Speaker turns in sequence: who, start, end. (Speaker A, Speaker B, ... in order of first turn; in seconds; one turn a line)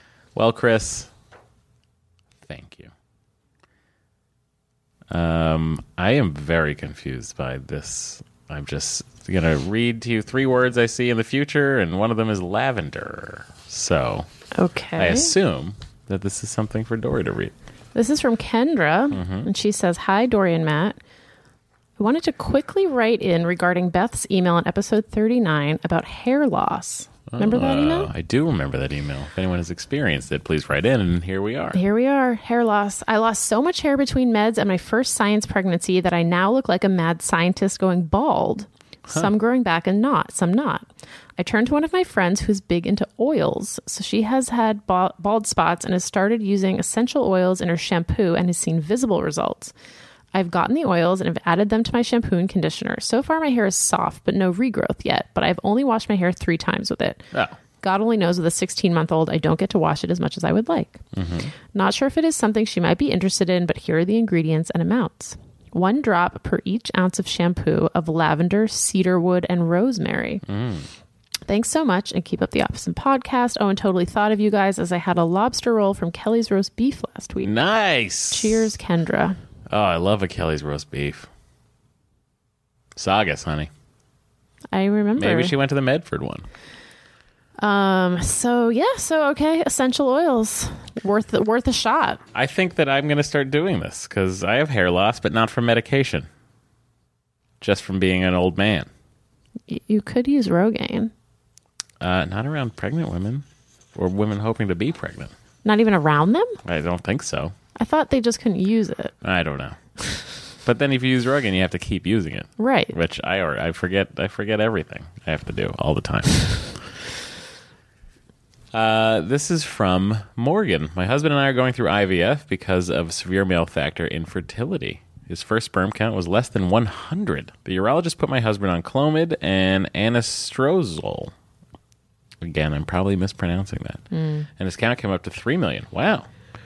Speaker A: 0.3-1.1
Speaker A: 2.5-2.9
Speaker A: 5.1-14.3
Speaker B: 14.5-15.3
Speaker A: 15.0-17.5
Speaker B: 17.9-21.0
Speaker A: 19.1-19.5
Speaker B: 22.0-28.1
Speaker A: 27.3-31.8
Speaker B: 31.7-49.7
Speaker B: 50.3-57.3
Speaker B: 57.8-61.0
Speaker A: 61.1-61.5
Speaker B: 61.7-70.4
Speaker A: 70.5-70.9
Speaker B: 71.5-77.5
Speaker A: 77.4-78.7
Speaker B: 78.3-79.4
Speaker A: 79.7-81.3
Speaker A: 83.0-83.7
Speaker B: 84.7-85.5
Speaker A: 85.2-86.5
Speaker B: 87.6-92.2
Speaker A: 92.3-96.3
Speaker A: 97.6-98.9
Speaker B: 99.7-101.1
Speaker A: 102.0-105.3
Speaker B: 105.7-106.6
Speaker A: 106.7-107.5
Speaker B: 107.8-109.2
Speaker A: 109.2-109.8
Speaker A: 110.7-116.8
Speaker B: 112.6-113.0
Speaker A: 118.7-131.3
Speaker A: 132.4-134.0
Speaker B: 134.1-134.5
Speaker A: 134.6-136.3